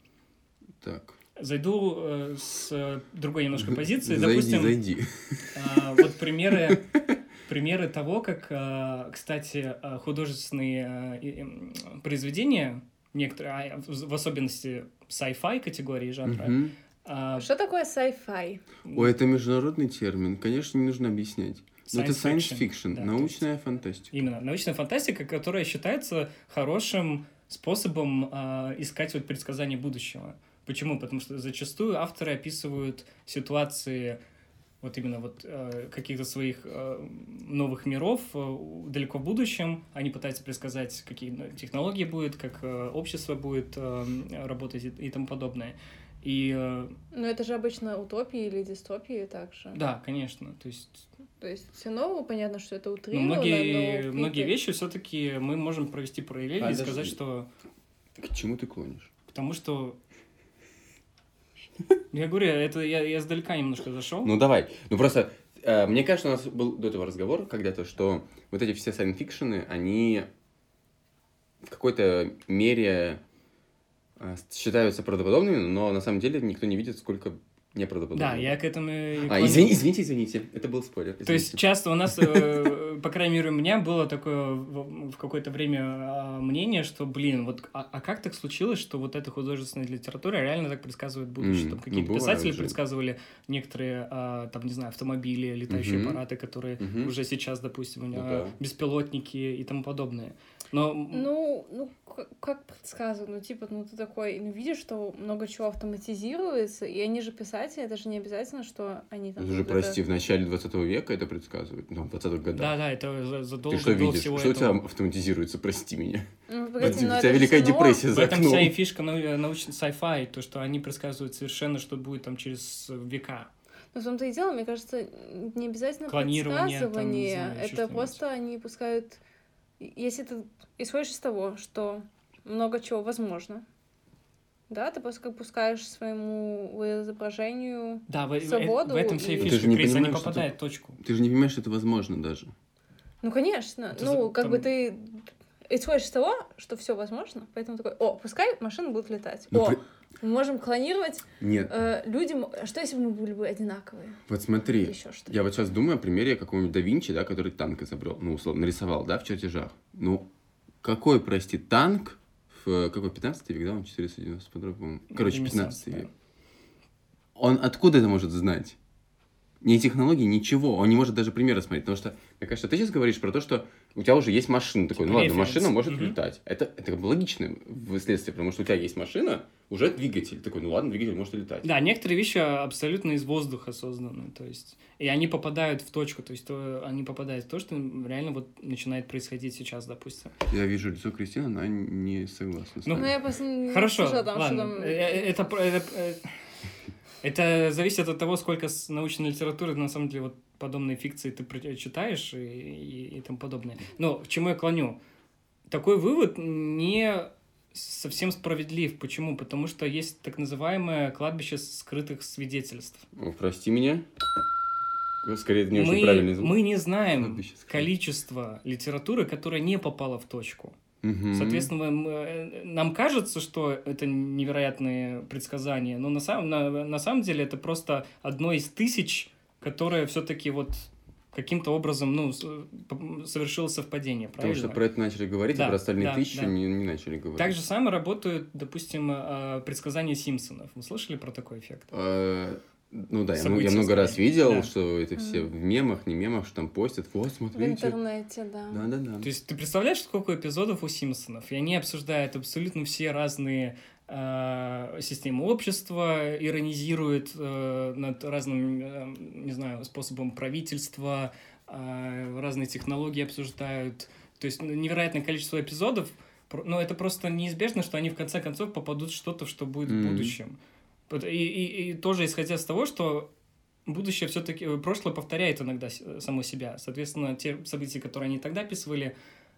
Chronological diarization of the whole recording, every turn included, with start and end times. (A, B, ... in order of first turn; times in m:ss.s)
0:00.8-0:01.2 A
0:01.4-0:04.8 B
0:03.6-0:05.5 A
0:05.5-0:06.9 B
0:07.5-0:17.5 B
0:16.2-0:16.7 A
0:17.3-0:18.6 C
0:18.9-0:24.2 A
0:21.9-0:23.4 B
0:24.1-0:34.2 B
0:34.8-0:46.9 B
0:47.1-0:49.8 C
0:49.7-0:51.0 B
0:51.4-0:54.5 C
0:53.1-0:57.5 B
0:56.6-0:57.2 A
0:58.2-0:59.1 A
0:59.3-1:00.0 B
1:02.1-1:04.3 B
1:04.2-1:10.3 A
1:11.6-1:13.2 A
1:14.2-1:18.6 A
1:18.1-1:19.8 B
1:19.2-1:21.6 A
1:21.2-1:41.3 B
1:31.4-1:32.8 A
1:35.7-1:36.2 A
1:36.8-1:37.1 A
1:38.1-1:38.6 A
1:41.1-1:50.0 C
1:49.4-1:52.7 A
1:52.5-1:54.8 B
1:53.7-1:56.3 A
1:56.5-1:58.0 C
1:56.8-1:58.7 A
1:58.1-2:03.5 B
2:03.9-2:09.2 C
2:06.1-2:08.2 B
2:09.8-2:13.6 C
2:14.7-2:19.6 C
2:18.1-2:21.0 B
2:19.4-2:22.5 A
2:23.2-2:34.2 C
2:23.9-2:24.7 B
2:29.5-2:29.8 A
2:31.4-2:31.7 A
2:34.3-2:40.3 A
2:34.8-2:35.4 C
2:40.8-2:46.1 A
2:45.1-2:46.1 B
2:47.4-2:48.8 A
2:49.6-3:01.7 A
2:54.9-2:56.2 B
3:01.6-3:10.3 B
3:10.5-3:13.1 A
3:12.8-3:13.2 B
3:12.9-3:15.3 C
3:13.7-3:16.3 B
3:17.2-3:25.0 B
3:25.7-3:33.0 B
3:33.1-3:34.0 A
3:35.2-3:36.5 A
3:35.7-3:40.8 B
3:37.2-3:37.9 A
3:41.0-3:41.7 A
3:41.3-3:54.8 B
3:54.4-3:57.6 A
3:55.5-3:56.5 B
3:57.4-4:01.9 B
4:01.9-4:08.0 A
4:03.4-4:04.7 B
4:05.2-4:05.5 C
4:07.5-4:08.8 C
4:08.7-4:09.3 A
4:09.2-4:30.6 B
4:29.8-4:30.4 A
4:31.1-4:33.3 B
4:33.8-4:39.1 B